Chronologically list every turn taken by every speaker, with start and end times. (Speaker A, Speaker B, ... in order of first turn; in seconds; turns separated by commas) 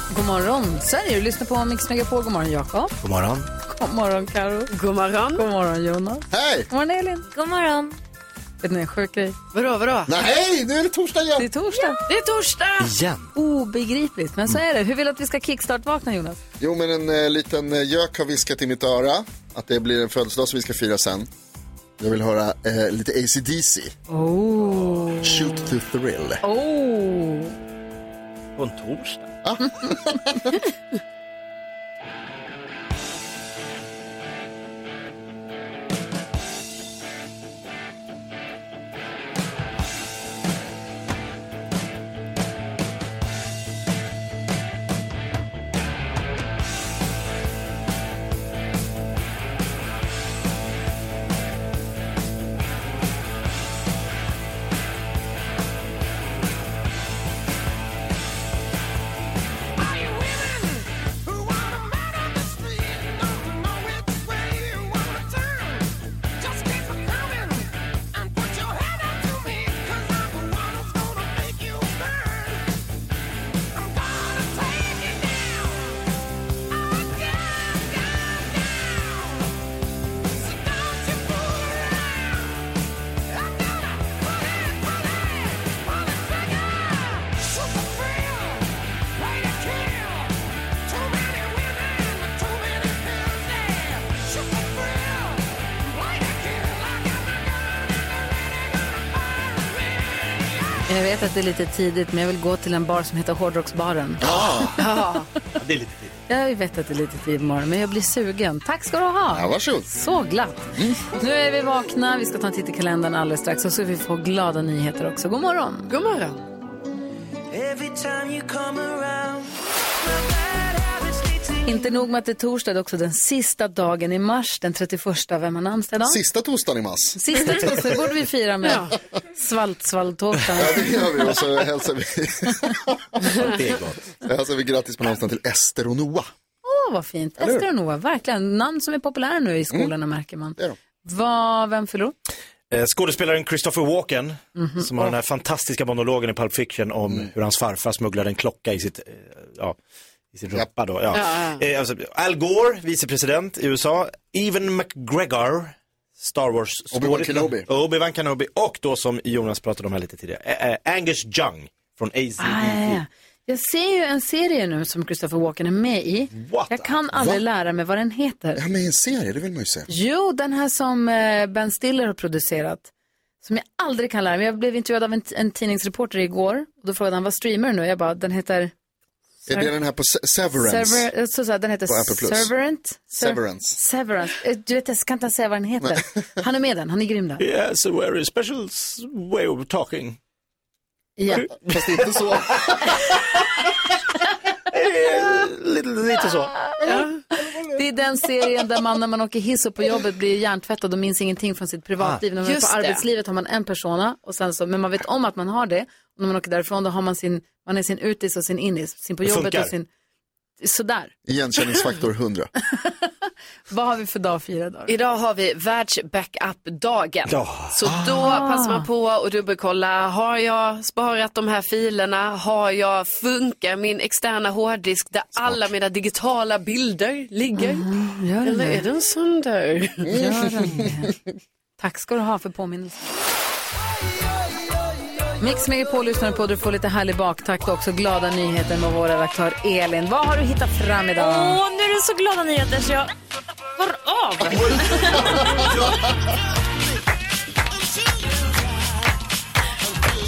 Speaker A: 0.1-2.9, Speaker B: 3.0-3.5, Speaker A: 3.7-4.7, Speaker C: 4.7-5.5, Speaker A: 5.3-7.3, Speaker D: 6.3-6.7, Speaker E: 7.3-8.0, Speaker A: 8.6-9.4, Speaker C: 9.5-10.1, Speaker D: 10.1-11.5, Speaker A: 11.4-12.0, Speaker C: 12.1-12.9, Speaker B: 12.8-13.3, Speaker A: 13.3-16.4, Speaker D: 16.6-21.3, Speaker D: 22.0-23.9, Speaker A: 24.1-25.7, Speaker D: 25.1-26.4, Speaker A: 26.4-27.6, Speaker B: 28.6-29.3, Speaker D: 29.4-30.6, Speaker A: 100.9-104.3, Speaker D: 104.2-104.9, Speaker B: 104.3-104.6, Speaker C: 104.8-105.3, Speaker B: 105.6-106.2, Speaker A: 106.3-115.9, Speaker D: 109.3-109.9, Speaker D: 110.8-111.0, Speaker C: 115.9-116.4, Speaker A: 121.6-126.2, Speaker D: 126.0-127.8, Speaker A: 127.2-131.1, Speaker C: 128.6-128.9, Speaker D: 130.6-133.7, Speaker B: 133.4-134.0, Speaker D: 134.2-136.3, Speaker A: 136.6-142.2, Speaker D: 137.4-137.7, Speaker B: 142.7-149.8, Speaker A: 144.6-144.9, Speaker B: 150.3-163.0, Speaker C: 151.1-151.6, Speaker D: 156.9-157.7, Speaker A: 162.4-168.6, Speaker B: 166.3-167.0, Speaker D: 167.1-167.4, Speaker D: 168.6-169.9, Speaker A: 169.9-172.9, Speaker A: 173.4-178.7, Speaker A: 179.5-179.7, Speaker D: 179.5-181.1, Speaker A: 180.6-187.4, Speaker D: 181.9-182.5, Speaker D: 183.1-183.8, Speaker B: 187.4-190.2, Speaker A: 191.2-191.5, Speaker D: 191.7-192.7, Speaker B: 194.7-196.6, Speaker A: 196.7-209.9, Speaker C: 196.9-197.2, Speaker C: 202.4-203.0, Speaker B: 209.2-209.7, Speaker A: 210.6-211.1, Speaker D: 211.3-212.5, Speaker A: 212.7-213.1, Speaker A: 213.7-214.9, Speaker C: 214.9-227.9, Speaker B: 217.3-218.1, Speaker A: 218.1-218.9, Speaker A: 227.6-228.8, Speaker C: 228.4-230.2, Speaker A: 230.1-231.1, Speaker A: 231.8-233.1, Speaker A: 235.4-241.6, Speaker E: 241.2-243.1, Speaker E: 243.8-245.9